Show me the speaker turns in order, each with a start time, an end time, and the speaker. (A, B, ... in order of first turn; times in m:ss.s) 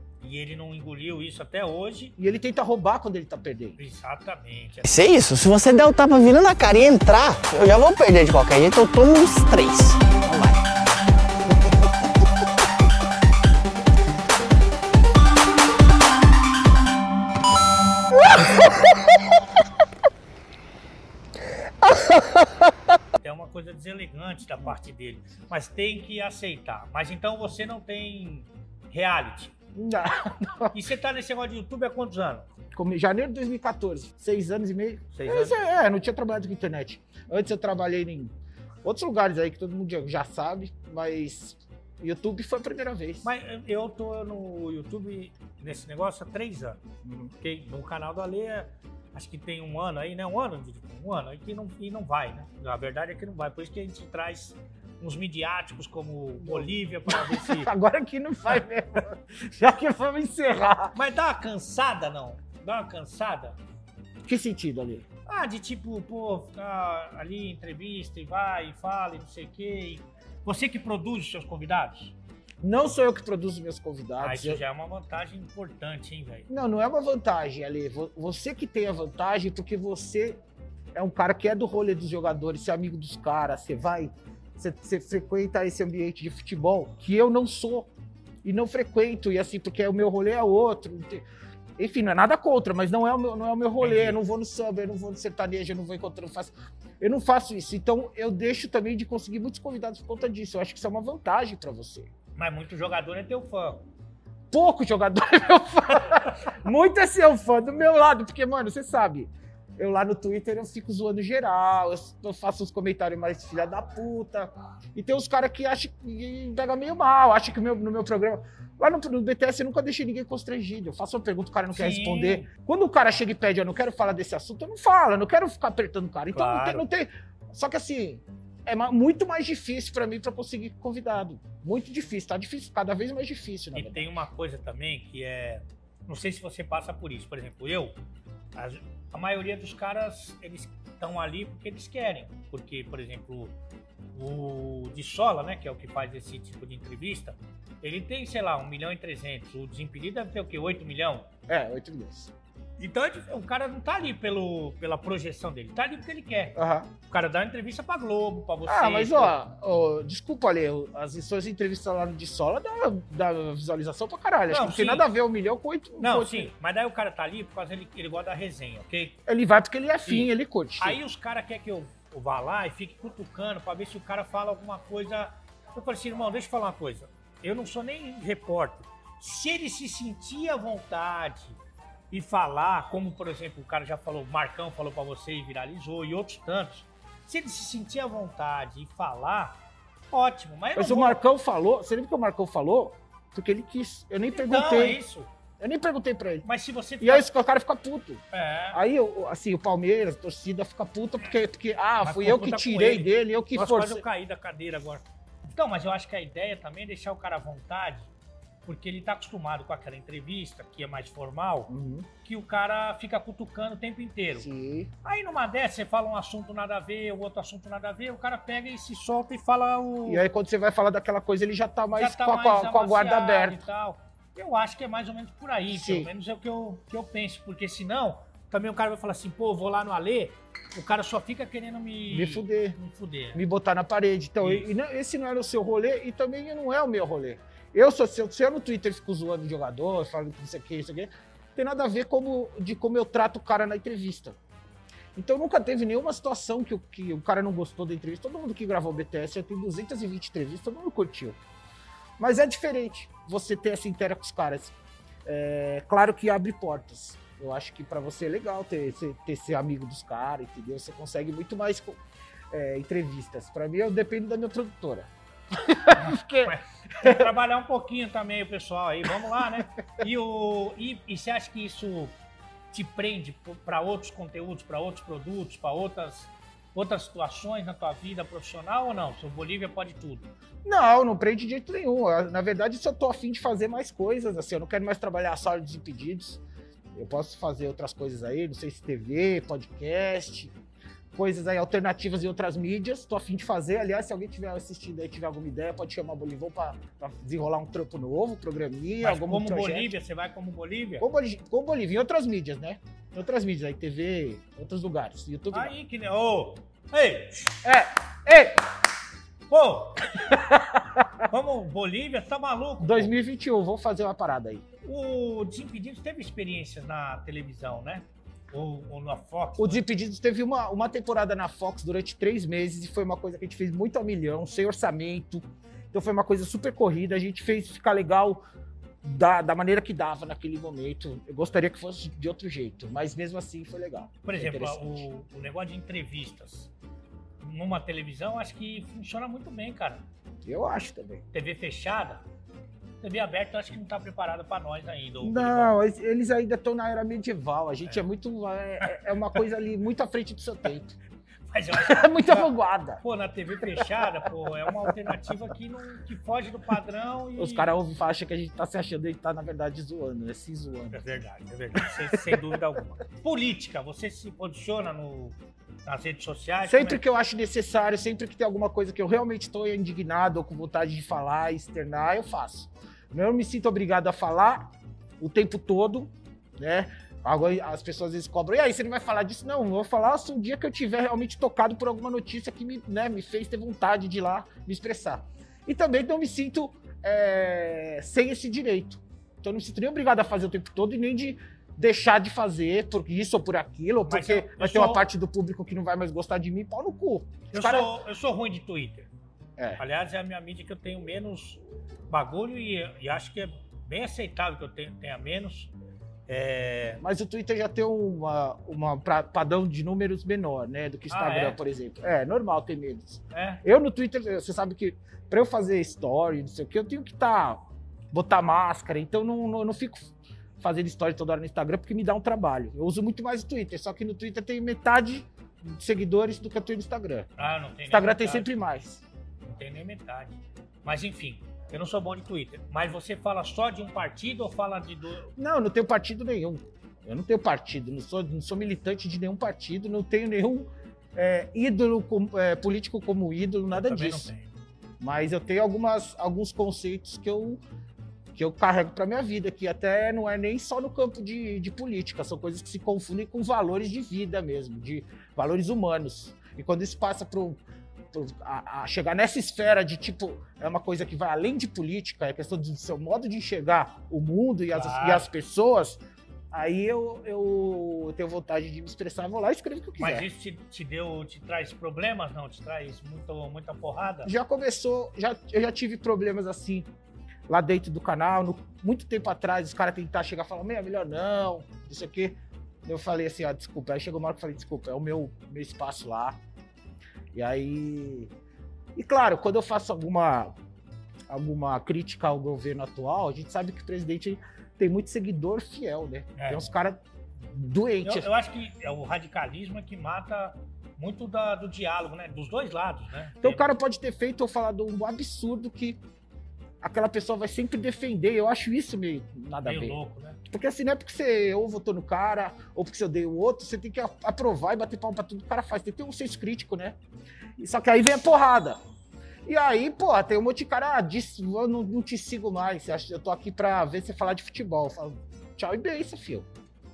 0:00.2-0:02.2 A
0:02.2-0:03.8 B
0:03.8-0:05.0 A
0:04.8-0:10.5 C
0:23.2-0:29.5 A
0:29.8-0:30.8 B
0:30.7-0:32.5 A
0:32.7-0:43.3 B
0:35.1-0:35.6 A
0:43.2-0:46.8 A
0:47.0-0:47.3 B
0:47.4-0:57.7 A
0:56.4-1:01.0 B
1:01.0-1:03.6 A
1:04.2-1:05.1 B
1:05.3-1:12.1 A
1:12.6-1:14.6 B
1:14.2-1:16.5 A
1:16.5-1:20.4 B
1:20.9-1:27.9 B
1:28.4-1:31.3 B
1:31.8-1:42.1 B
1:33.8-1:34.2 A
1:42.4-1:43.8 A
1:44.5-2:14.1 B
2:01.7-2:02.5 A
2:06.3-2:06.8 A
2:13.7-2:17.9 A
2:18.6-2:23.5 A
2:24.2-2:31.3 A
2:31.5-2:32.3 B
2:32.8-2:39.3 A
2:36.6-2:36.9 B
2:38.7-2:46.5 B
2:44.5-2:45.1 A
2:46.0-2:49.2 A
2:49.3-2:51.0 B
2:50.1-3:01.6 A
3:02.1-3:09.6 A
3:10.1-3:11.2 A
3:10.8-3:15.0 B
3:14.3-3:15.3 A
3:15.6-3:16.5 B
3:16.4-3:17.3 A
3:17.0-3:24.0 B
3:18.3-3:18.8 A
3:22.0-3:28.1 A
3:28.7-3:31.7 A
3:31.7-3:32.1 B
3:32.2-3:34.5 A
3:34.4-3:34.9 B
3:35.0-3:40.2 A
3:40.1-3:43.6 B
3:41.9-3:53.4 A
3:45.7-3:46.1 B
3:52.1-3:52.8 B
3:53.3-4:04.4 B
3:54.4-3:54.7 A
4:05.2-4:11.4 B
4:12.2-4:14.8 B
4:15.3-4:22.0 B
4:22.5-4:27.3 B
4:26.0-4:32.1 A
4:32.7-4:40.3 A
4:40.6-4:46.4 B
4:46.9-4:50.5 B
4:51.1-5:00.0 B
4:59.0-5:01.0 A
5:01.0-5:05.7 B
5:05.5-5:07.6 A
5:07.6-5:08.6 B
5:09.5-5:10.3 A
5:10.3-5:11.1 B
5:11.2-5:13.1 A
5:12.8-5:14.6 B
5:14.8-5:19.8 A
5:19.6-5:28.4 B
5:29.0-5:35.1 B
5:34.2-5:36.7 A
5:37.4-5:40.0 A
5:40.4-5:41.2 B
5:41.3-5:42.2 A
5:43.0-5:45.8 A
5:45.2-5:51.0 B
5:51.5-5:52.5 A
5:51.7-5:53.0 B
5:53.0-5:57.7 A
5:53.6-5:54.1 B
5:57.4-6:01.0 B
6:00.9-6:07.0 A
6:01.8-6:02.6 B
6:06.6-6:37.9 B
6:34.1-6:35.1 A
6:37.5-6:39.1 A
6:39.8-6:45.7 A
6:46.3-6:47.0 A
6:47.0-7:07.3 B
6:51.1-6:51.6 A
6:53.3-6:53.6 A
7:07.4-7:08.5 A
7:07.9-7:09.0 B
7:09.4-7:15.3 A
7:15.4-7:24.3 B
7:23.7-7:24.5 A
7:25.0-7:27.6 B
7:28.4-7:37.6 B
7:38.1-7:50.3 B
7:44.7-7:45.3 A
7:50.0-7:54.3 A
7:54.2-7:56.9 B
7:57.5-8:06.4 B
8:07.3-8:08.3 B
8:09.0-8:10.6 B
8:11.3-8:18.3 B
8:16.4-8:16.7 A
8:18.0-8:23.7 A
8:23.4-8:26.0 B
8:26.8-8:37.0 B
8:29.6-8:30.4 A
8:37.6-8:38.8 B
8:39.5-8:46.5 B